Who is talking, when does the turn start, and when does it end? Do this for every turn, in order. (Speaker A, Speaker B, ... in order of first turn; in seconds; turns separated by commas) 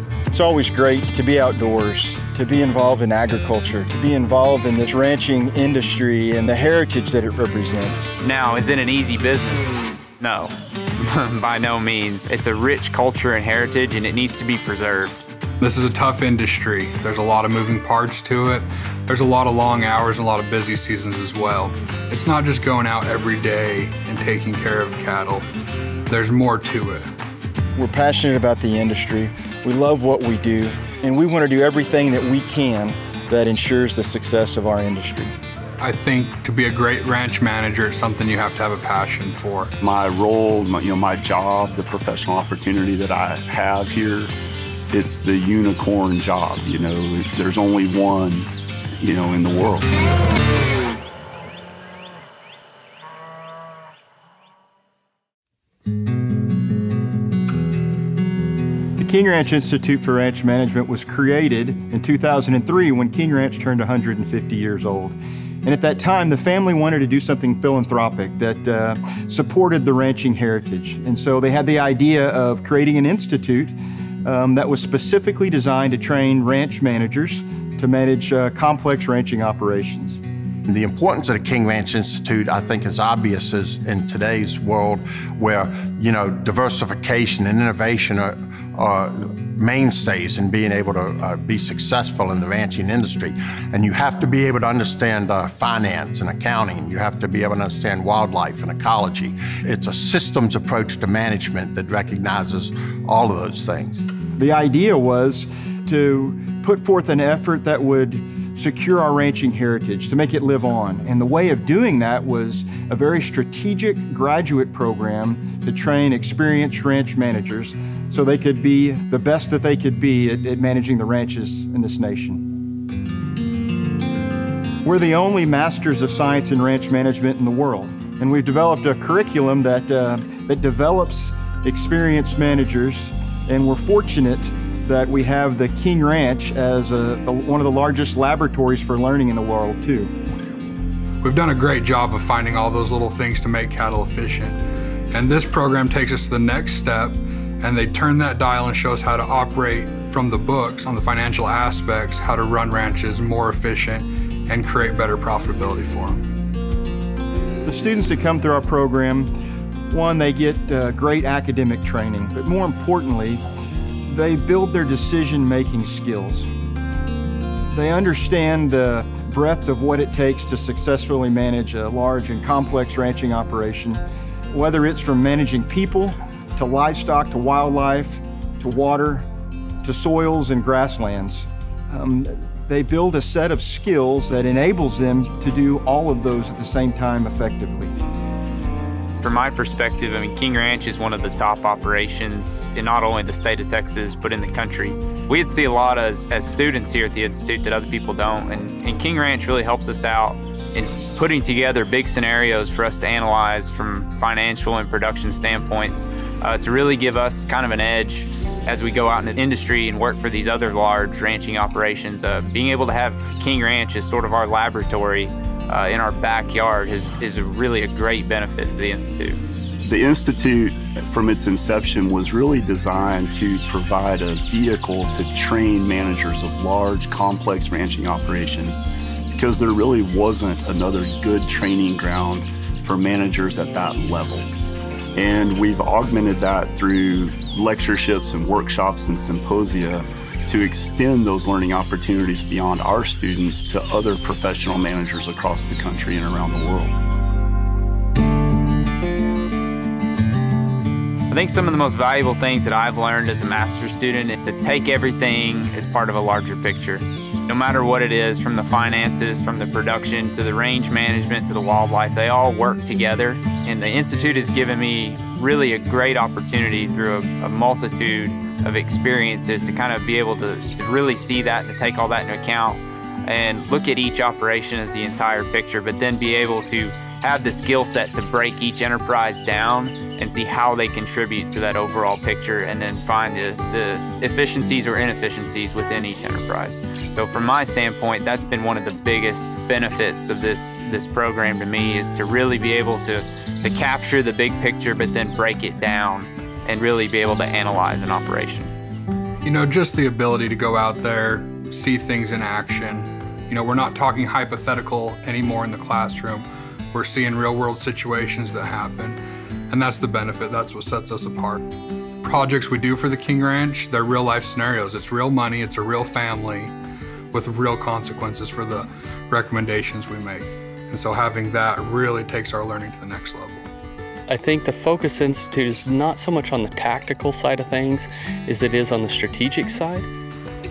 Speaker A: 0.3-8.1, Speaker B: 8.2-9.7, Speaker B: 10.2-15.1, Speaker C: 15.6-25.5, Speaker C: 26.1-27.1, Speaker A: 27.8-35.3, Speaker C: 35.8-39.7, Speaker D: 39.8-44.3, Speaker D: 44.9-49.9, Speaker A: 59.0-80.2, Speaker E: 80.7-104.0, Speaker A: 104.4-122.5, Speaker A: 124.8-140.1, Speaker C: 141.2-144.6, Speaker C: 145.1-156.2, Speaker A: 157.7-159.3, Speaker A: 159.9-163.4, Speaker A: 164.1-166.5, Speaker A: 167.7-179.3, Speaker A: 179.8-187.9, Speaker B: 189.2-219.4, Speaker D: 219.8-234.5, Speaker D: 235.1-247.0, Speaker B: 251.3-298.7, Speaker C: 299.4-309.2, Speaker C: 309.7-311.6, Speaker C: 312.2-316.7, Speaker C: 317.3-323.7, Speaker F: 324.3-330.1